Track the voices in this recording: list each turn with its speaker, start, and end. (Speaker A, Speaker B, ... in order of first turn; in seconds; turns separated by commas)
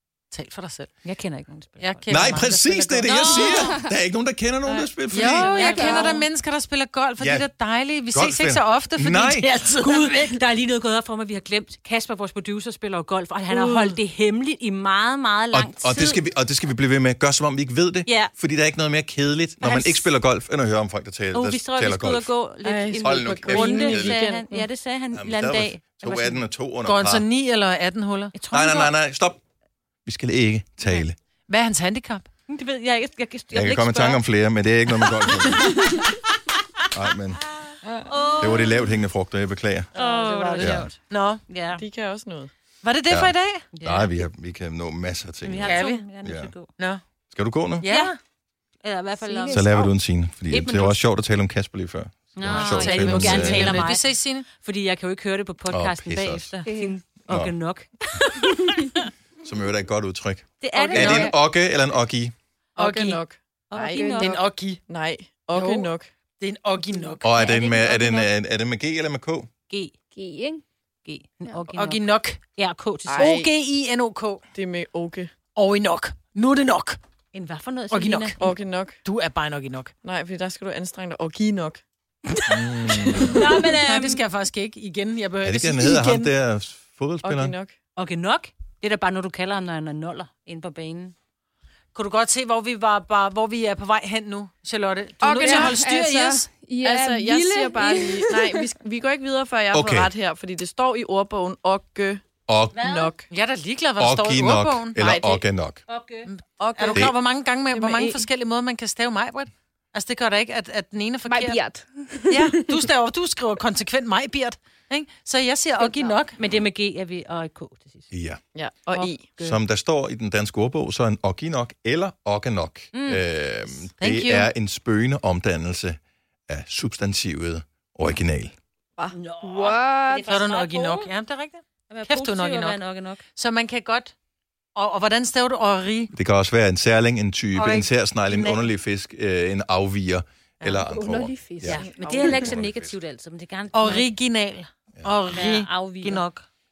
Speaker A: 0.3-0.9, Speaker B: 1.0-3.7, Speaker A: 1.8-3.7, Speaker C: 2.1-6.0, Speaker B: 4.7-6.2, Speaker D: 5.1-5.5, Speaker A: 5.2-9.4, Speaker E: 5.7-6.1, Speaker C: 7.2-7.5, Speaker C: 8.1-9.4, Speaker B: 9.4-16.2, Speaker D: 13.5-14.0, Speaker C: 15.5-22.3, Speaker B: 18.1-18.3, Speaker B: 19.6-20.1, Speaker B: 21.3-26.4, Speaker D: 22.6-24.6, Speaker C: 23.0-24.3, Speaker C: 25.1-27.2, Speaker A: 26.8-28.4, Speaker B: 28.3-28.9, Speaker C: 28.5-29.4, Speaker C: 30.1-31.1, Speaker A: 31.5-32.3, Speaker B: 32.5-34.2, Speaker C: 33.5-35.9, Speaker B: 34.9-35.9, Speaker C: 36.9-37.4, Speaker B: 38.0-39.0, Speaker C: 38.4-39.9, Speaker B: 39.9-41.8, Speaker A: 39.9-41.4, Speaker C: 40.6-40.9, Speaker D: 41.7-42.5, Speaker A: 42.8-43.6, Speaker C: 43.1-46.5, Speaker B: 43.7-44.2, Speaker B: 45.4-46.7, Speaker A: 45.6-46.0, Speaker C: 47.3-47.8, Speaker A: 47.8-48.2, Speaker B: 47.9-48.1, Speaker B: 48.8-49.7, Speaker E: 49.2-49.9, Speaker C: 49.5-53.9, Speaker B: 50.5-51.0, Speaker B: 52.4-59.1, Speaker A: 52.5-54.5, Speaker C: 55.7-56.5, Speaker E: 56.6-56.9, Speaker C: 57.3-57.5, Speaker C: 59.4-62.3, Speaker B: 60.6-61.4, Speaker A: 60.7-61.3, Speaker A: 62.8-63.2, Speaker D: 62.8-64.3, Speaker B: 63.7-64.3, Speaker E: 63.8-64.4, Speaker A: 64.1-64.8, Speaker D: 64.8-66.1, Speaker B: 65.5-65.8, Speaker A: 66.4-67.3, Speaker C: 67.2-69.5, Speaker B: 67.2-68.3, Speaker B: 69.7-69.9, Speaker E: 70.1-70.6, Speaker B: 71.0-73.4, Speaker A: 71.7-72.4, Speaker D: 73.0-73.6, Speaker A: 73.3-74.4, Speaker D: 74.5-75.3, Speaker A: 75.5-77.0, Speaker B: 77.3-78.6, Speaker A: 77.9-78.4, Speaker D: 78.4-79.0, Speaker A: 79.0-79.9, Speaker D: 80.0-81.8, Speaker B: 82.3-84.2, Speaker C: 82.5-83.5, Speaker A: 83.8-86.3, Speaker C: 85.4-87.5, Speaker D: 87.2-87.8, Speaker B: 88.0-91.1, Speaker A: 91.9-96.5, Speaker E: 95.2-98.7, Speaker D: 96.8-102.2, Speaker C: 99.7-100.1, Speaker C: 102.5-102.8, Speaker B: 102.7-103.1, Speaker D: 102.8-103.2, Speaker A: 103.3-105.2, Speaker C: 104.0-105.8, Speaker D: 105.0-105.4, Speaker B: 105.9-106.3, Speaker A: 106.2-111.6, Speaker D: 106.6-107.2, Speaker D: 107.7-108.2, Speaker E: 111.2-112.8, Speaker A: 112.3-116.4, Speaker B: 116.3-118.1, Speaker C: 118.1-118.4, Speaker D: 118.5-119.3, Speaker B: 118.9-119.6, Speaker C: 119.4-126.0, Speaker B: 122.9-123.2, Speaker A: 124.0-124.5, Speaker C: 126.5-128.5, Speaker B: 129.1-131.1, Speaker E: 129.4-130.4, Speaker A: 130.3-132.8, Speaker B: 131.9-133.2, Speaker A: 133.3-134.1, Speaker A: 134.8-136.1, Speaker C: 136.1-143.0, Speaker B: 137.6-138.7, Speaker E: 140.8-142.4, Speaker B: 141.6-144.1, Speaker D: 141.7-142.6, Speaker A: 143.7-146.4, Speaker B: 145.2-146.2